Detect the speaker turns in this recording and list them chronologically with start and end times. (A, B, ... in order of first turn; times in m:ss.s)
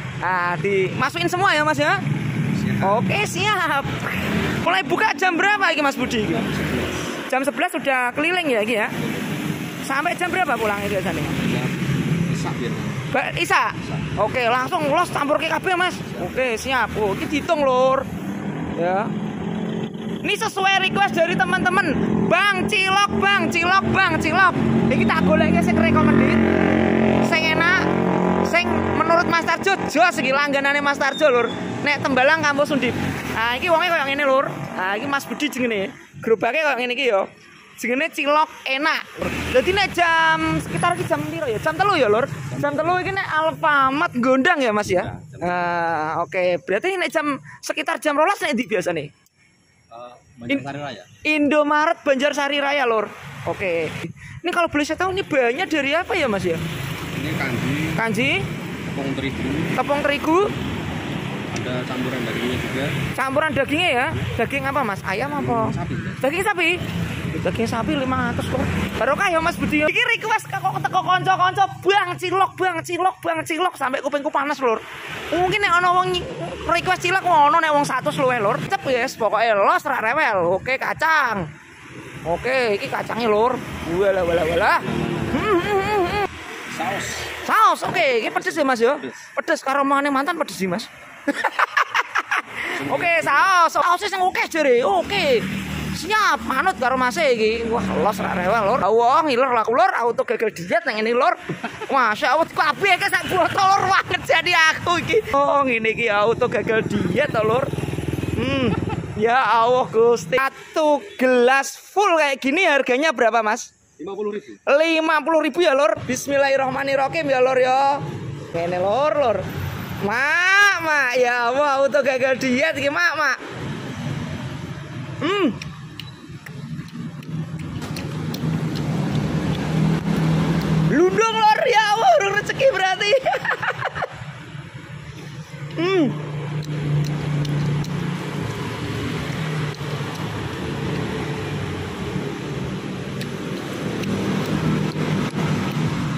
0:00.2-0:02.0 A
0:02.5-0:03.0 B
0:02.8-0:06.5 A
0:06.3-0:07.2 B
0:07.3-0:09.0 A
0:09.8-0:11.5 A
0:11.4-0:13.0 B
0:13.1-0:18.1 A
0:18.8-0:19.1 A
0:20.2-0:26.6 A
0:27.2-0:49.1 A
0:42.5-0:43.0 B
0:44.9-0:45.8 B
0:49.9-0:51.1 B
0:51.2-0:56.6 A
0:57.1-0:58.0 B
0:58.0-0:58.5 A
0:58.9-0:59.8 B
0:59.8-1:00.5 A
1:01.5-1:02.9 B
1:03.1-1:21.5 A
1:05.3-1:06.2 B
1:22.3-1:26.3 A
1:24.6-1:25.6 B
1:26.7-1:27.4 B
1:27.4-1:47.7 A
1:28.1-1:29.2 B
1:32.7-1:33.5 B
1:48.3-1:53.7 A
1:54.0-1:54.6 B
1:54.6-1:59.5 A
2:00.0-2:03.4 A
2:05.2-2:05.6 A
2:10.9-2:14.1 A
2:15.8-2:16.2 A